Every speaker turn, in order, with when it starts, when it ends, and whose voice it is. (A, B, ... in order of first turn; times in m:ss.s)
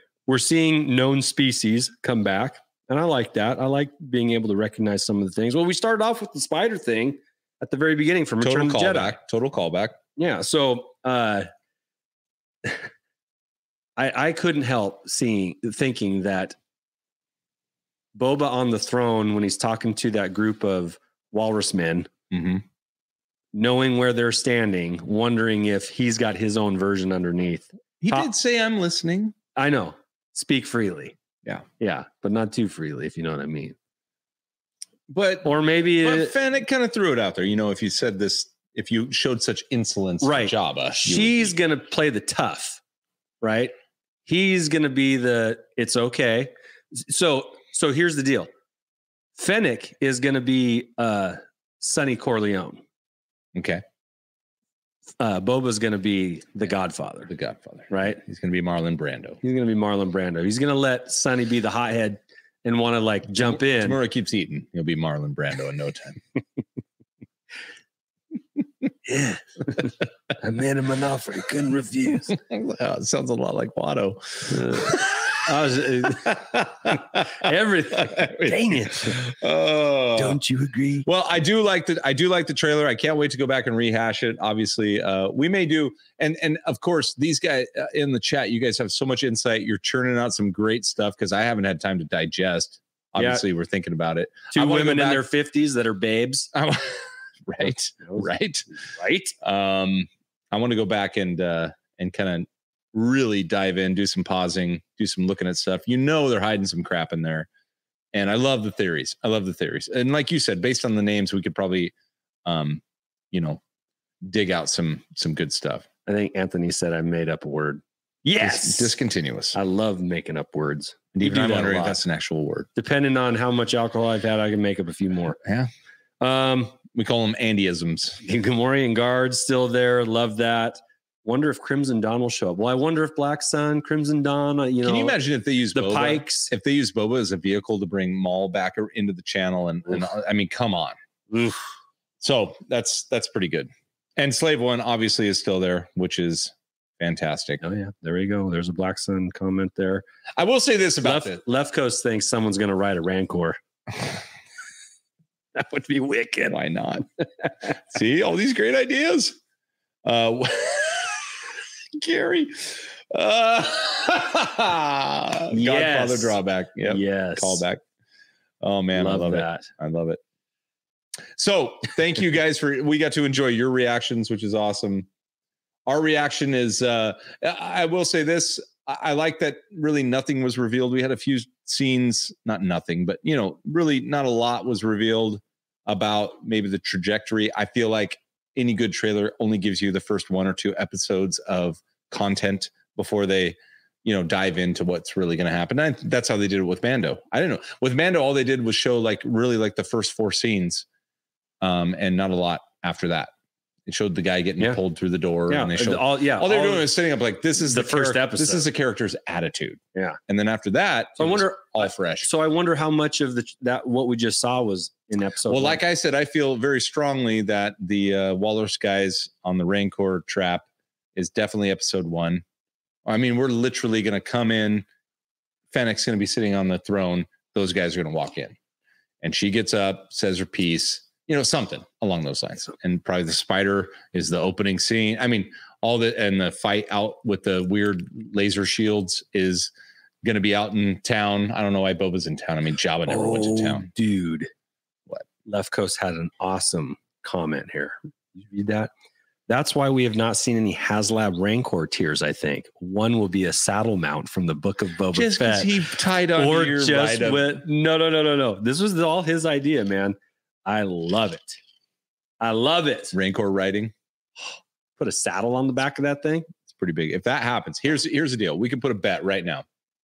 0:00.3-0:09.2 A
0:08.4-0:10.0 B
0:10.2-0:11.5 A
0:14.0-0:16.6 A
0:18.2-0:22.1 A
0:22.3-0:22.6 B
0:23.5-0:28.3 A
0:28.0-0:29.4 B
0:29.6-0:31.2 A
0:31.8-0:33.8 A
0:35.1-0:41.5 B
0:35.4-0:36.3 A
0:40.2-0:42.8 A
0:43.4-0:43.7 A
0:44.3-0:48.5 A
0:49.4-0:52.8 A
0:53.6-0:53.8 B
0:55.2-0:57.3 A
0:57.3-0:59.4 B
0:57.9-0:58.2 A
0:59.4-1:04.0 A
1:03.4-1:06.2 B
1:09.1-1:12.3 A
1:12.3-1:15.1 B
1:14.5-1:19.2 A
1:16.2-1:17.0 B
1:18.1-1:20.4 B
1:20.2-1:21.1 A
1:21.0-1:35.3 B
1:33.2-1:33.4 A
1:34.5-1:36.5 A
1:36.5-1:38.7 B
1:38.0-1:39.3 A
1:39.4-1:47.5 B
1:48.1-1:51.9 B
1:52.5-1:53.6 B
1:54.2-1:55.9 B
1:56.1-1:58.9 A
1:58.4-1:59.6 B
1:59.5-2:02.0 A
2:01.2-2:02.7 B
2:02.8-2:05.4 A
2:05.4-2:05.7 B
2:06.2-2:06.8 A
2:06.9-2:08.2 B
2:08.2-2:15.2 A
2:14.8-2:21.0 B
2:15.7-2:16.5 A
2:21.3-2:21.6 A
2:22.2-2:27.6 B
2:27.6-2:30.0 A
2:30.4-2:31.4 B
2:31.0-2:33.6 A
2:35.6-2:36.6 A
2:36.5-2:37.1 B
2:37.8-2:39.4 B
2:40.0-2:41.2 B
2:42.0-2:47.8 B
2:45.5-2:47.6 A
2:48.6-2:50.2 B
2:48.9-2:49.7 A
2:51.4-2:55.1 B
2:55.9-3:20.9 B
3:21.6-3:23.3 B
3:23.9-3:32.3 B
3:25.5-3:26.9 A
3:27.6-3:28.7 A
3:31.2-3:35.8 A
3:35.5-3:42.4 B
3:43.1-3:44.9 B
3:45.7-3:48.6 B
3:49.2-3:59.7 B
4:00.2-4:03.9 B
4:03.1-4:04.5 A
4:05.4-4:08.9 A
4:09.5-4:15.7 A
4:15.1-4:17.6 B
4:16.4-4:21.6 A
4:22.4-4:23.1 A
4:23.1-4:23.9 B
4:25.0-4:26.5 A
4:26.7-4:29.6 B